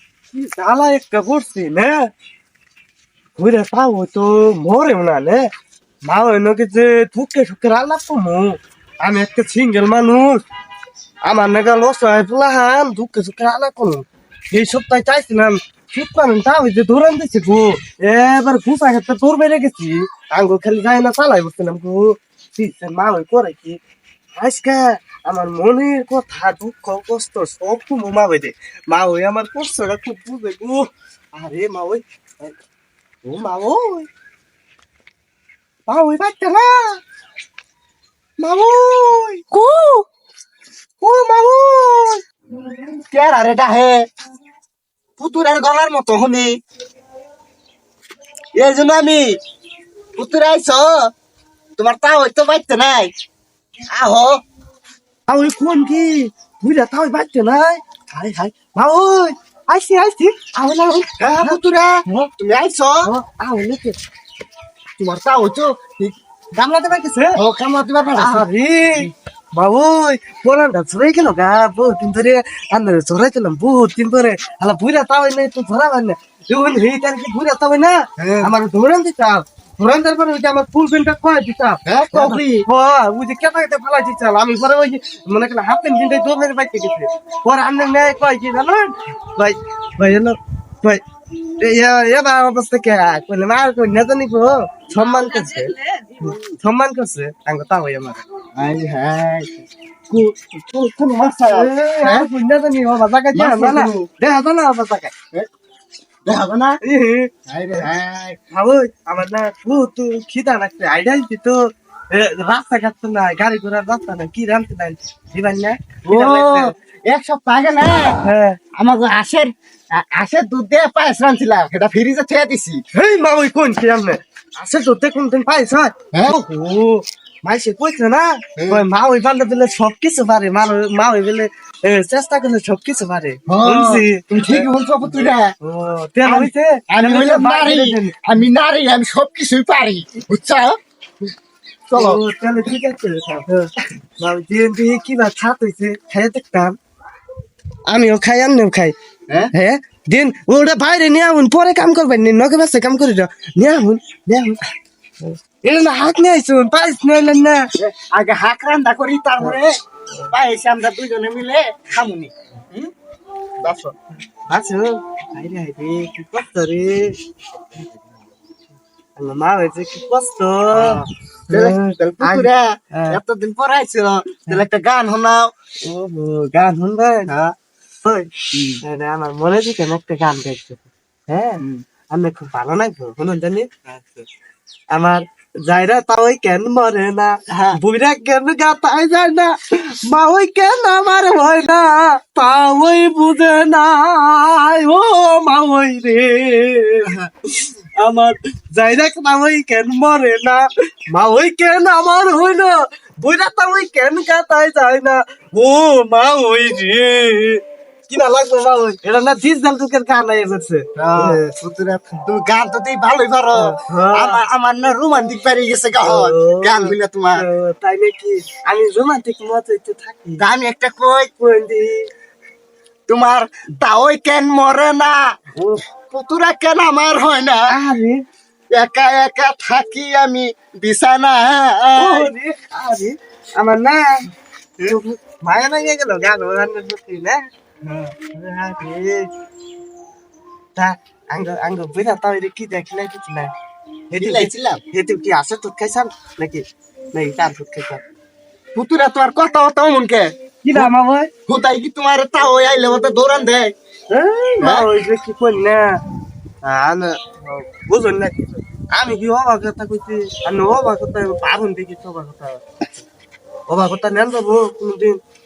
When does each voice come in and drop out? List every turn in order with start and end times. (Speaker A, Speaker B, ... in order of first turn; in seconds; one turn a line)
Speaker A: 0.3-2.1
Speaker A: 3.4-5.5
Speaker A: 6.0-10.4
Speaker A: 11.2-23.8
Speaker A: 24.4-32.5
Speaker A: 33.2-34.1
Speaker A: 35.9-37.0
Speaker A: 38.4-40.0
Speaker A: 41.0-42.2
Speaker B: 42.8-44.1
Speaker B: 45.2-46.6
Speaker B: 48.5-49.4
Speaker B: 50.1-51.1
Speaker B: 51.8-53.1
Speaker B: 53.9-54.4
Speaker A: 55.3-62.3
Speaker B: 60.7-63.1
Speaker A: 63.0-64.0
Speaker B: 65.0-66.2
Speaker A: 66.5-67.4
Speaker B: 67.3-68.5
Speaker A: 68.2-91.0
Speaker B: 78.2-78.5
Speaker B: 81.8-82.7
Speaker A: 91.6-98.2
Speaker B: 98.5-102.3
Speaker A: 101.5-105.1
Speaker B: 103.3-104.1
Speaker B: 106.2-106.8
Speaker A: 106.8-107.8
Speaker B: 107.5-108.4
Speaker A: 108.5-116.7
Speaker B: 116.0-118.2
Speaker A: 118.2-118.6
Speaker B: 118.7-122.8
Speaker A: 122.9-134.7
Speaker B: 126.1-126.4
Speaker B: 128.6-128.8
Speaker B: 133.5-135.5
Speaker A: 135.6-138.3
Speaker B: 136.2-140.8
Speaker A: 141.9-146.8
Speaker B: 141.9-142.8
Speaker A: 147.8-148.9
Speaker A: 149.5-154.6
Speaker A: 155.2-157.7
Speaker B: 157.8-159.8
Speaker B: 160.3-162.9
Speaker B: 163.6-163.9
Speaker A: 164.5-167.2
Speaker A: 169.2-173.2
Speaker B: 170.7-175.5
Speaker A: 175.8-177.3
Speaker B: 177.3-177.6
Speaker A: 178.0-184.0
Speaker B: 178.5-178.8
Speaker A: 184.9-211.5
Speaker B: 187.5-187.8
Speaker B: 197.0-197.3
Speaker B: 210.9-217.4
Speaker A: 213.6-214.4
Speaker A: 216.0-220.4
Speaker B: 220.4-221.3
Speaker A: 221.4-222.1
Speaker B: 223.1-225.3
Speaker A: 225.6-225.8
Speaker B: 226.1-227.7
Speaker A: 227.7-228.2
Speaker B: 228.7-232.3
Speaker A: 231.9-234.3
Speaker A: 234.9-237.5
Speaker B: 237.8-238.1
Speaker A: 238.2-239.3
Speaker A: 240.8-243.5
Speaker A: 244.1-248.0
Speaker B: 244.2-244.8
Speaker B: 248.7-250.9
Speaker A: 250.6-251.3
Speaker B: 251.5-253.7
Speaker A: 254.1-256.0
Speaker B: 254.6-254.9
Speaker A: 256.6-262.6
Speaker A: 263.7-265.2